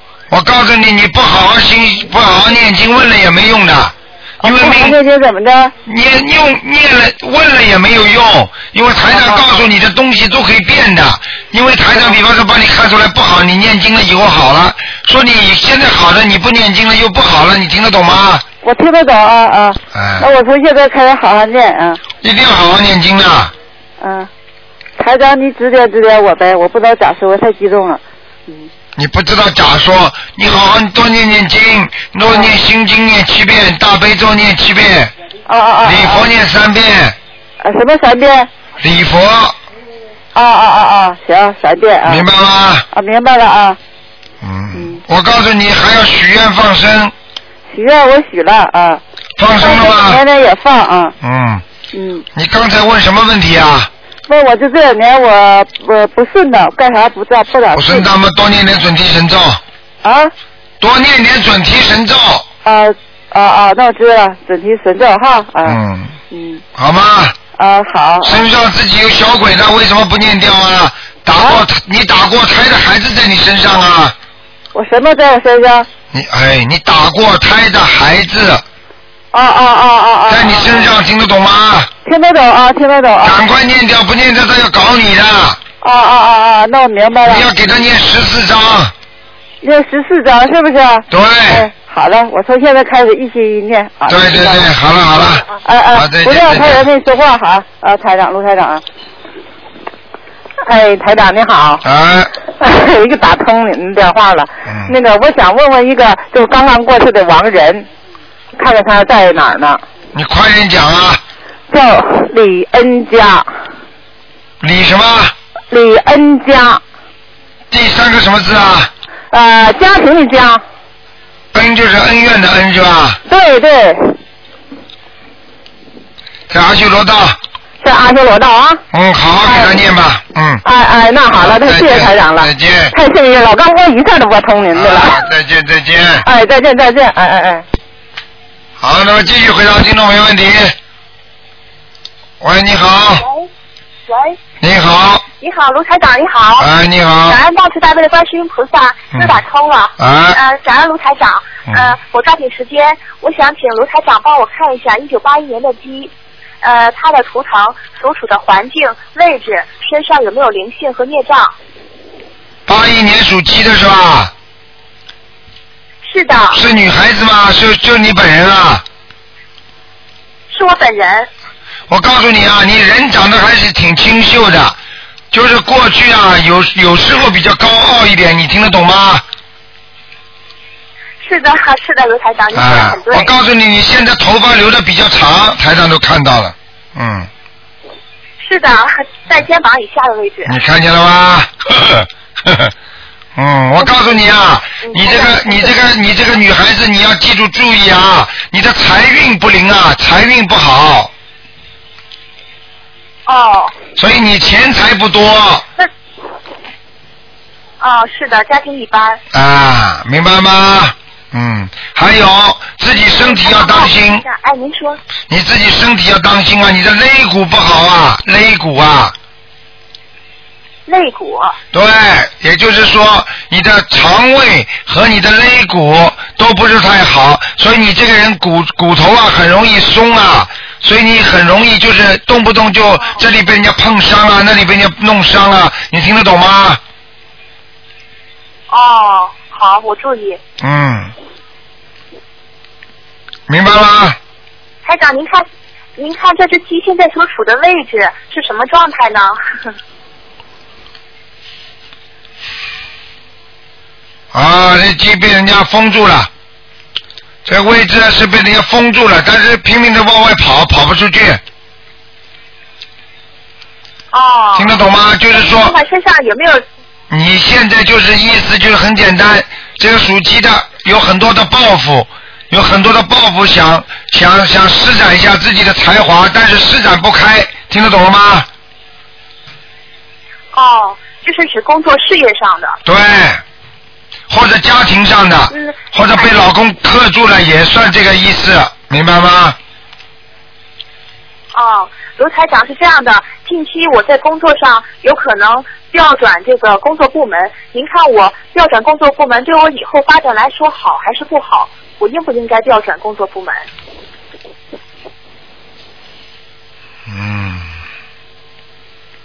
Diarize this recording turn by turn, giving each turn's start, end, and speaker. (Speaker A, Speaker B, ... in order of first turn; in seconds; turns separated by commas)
Speaker A: 0.3-5.0, Speaker B: 4.4-5.7, Speaker A: 5.8-18.4, Speaker B: 9.1-9.7, Speaker B: 18.6-22.0, Speaker A: 19.9-20.3, Speaker A: 22.2-23.5, Speaker B: 24.0-24.3, Speaker B: 25.0-28.7, Speaker A: 29.0-35.1, Speaker B: 32.2-32.5, Speaker B: 35.5-36.3, Speaker A: 35.8-37.2, Speaker B: 37.6-38.5, Speaker A: 38.8-39.6, Speaker B: 40.4-42.3, Speaker A: 42.0-42.9, Speaker B: 42.9-43.8, Speaker A: 44.4-47.1, Speaker B: 44.7-45.0, Speaker B: 47.7-49.0, Speaker A: 49.4-50.2, Speaker B: 49.6-51.1, Speaker A: 51.2-51.6, Speaker B: 51.9-52.2, Speaker A: 52.3-53.9, Speaker B: 54.3-58.1, Speaker A: 57.7-59.6, Speaker B: 60.0-60.3, Speaker A: 60.8-62.5, Speaker B: 62.6-65.8, Speaker A: 65.7-66.1, Speaker B: 66.3-66.6, Speaker A: 66.8-67.4, Speaker B: 67.6-68.4, Speaker A: 68.2-74.2, Speaker B: 71.3-71.7, Speaker B: 74.7-75.9, Speaker A: 76.1-78.6, Speaker B: 79.3-80.9, Speaker A: 80.3-81.9, Speaker B: 82.0-83.4, Speaker A: 83.2-85.6, Speaker B: 85.8-87.5, Speaker A: 87.3-88.9, Speaker B: 89.6-94.7, Speaker A: 91.1-91.7, Speaker A: 94.1-96.9, Speaker B: 95.5-98.8, Speaker B: 100.6-101.8, Speaker A: 101.8-102.3, Speaker B: 102.6-107.9, Speaker A: 104.7-104.9, Speaker B: 108.6-109.8, Speaker A: 110.1-111.2, Speaker B: 111.7-113.5, Speaker A: 114.6-115.3, Speaker B: 115.7-116.8, Speaker A: 117.7-118.9, Speaker B: 119.3-120.6, Speaker A: 121.5-123.2, Speaker B: 123.3-124.2, Speaker A: 126.5-127.4, Speaker B: 127.8-128.8, Speaker A: 128.9-130.6, Speaker B: 129.4-129.9, Speaker B: 130.6-135.2, Speaker A: 131.3-132.9, Speaker A: 134.7-136.2, Speaker B: 136.2-137.7, Speaker A: 138.8-140.8, Speaker A: 142.4-143.2, Speaker C: 143.2-143.5, Speaker C: 144.1-144.4, Speaker A: 144.6-145.2, Speaker C: 145.4-146.7, Speaker A: 146.6-147.4, Speaker C: 147.3-156.1, Speaker A: 150.0-150.4, Speaker C: 156.6-161.5, Speaker A: 162.7-164.3, Speaker C: 166.1-166.6, Speaker A: 166.5-168.8, Speaker C: 170.5-171.3, Speaker A: 171.9-174.8, Speaker A: 175.3-179.2, Speaker C: 181.2-183.3, Speaker A: 182.5-187.3, Speaker C: 188.4-190.6, Speaker A: 190.5-192.7, Speaker A: 193.4-201.1, Speaker C: 193.8-194.2, Speaker C: 194.8-195.8, Speaker C: 203.3-203.7, Speaker A: 204.0-205.7, Speaker C: 207.8-209.2, Speaker A: 209.3-214.2, Speaker C: 212.9-215.0, Speaker A: 215.3-219.2, Speaker C: 220.9-221.6, Speaker A: 221.7-236.8, Speaker C: 238.7-240.4, Speaker A: 240.6-241.1, Speaker A: 243.5-244.2, Speaker C: 244.8-245.4, Speaker C: 246.0-249.4, Speaker A: 254.3-256.3, Speaker A: 257.4-261.4, Speaker C: 264.1-264.8, Speaker A: 264.6-265.8, Speaker C: 265.3-266.6, Speaker A: 267.1-278.5, Speaker C: 280.5-282.8, Speaker A: 282.9-283.4, Speaker A: 284.3-289.6, Speaker C: 285.5-286.4, Speaker C: 291.5-303.7, Speaker A: 307.1-307.7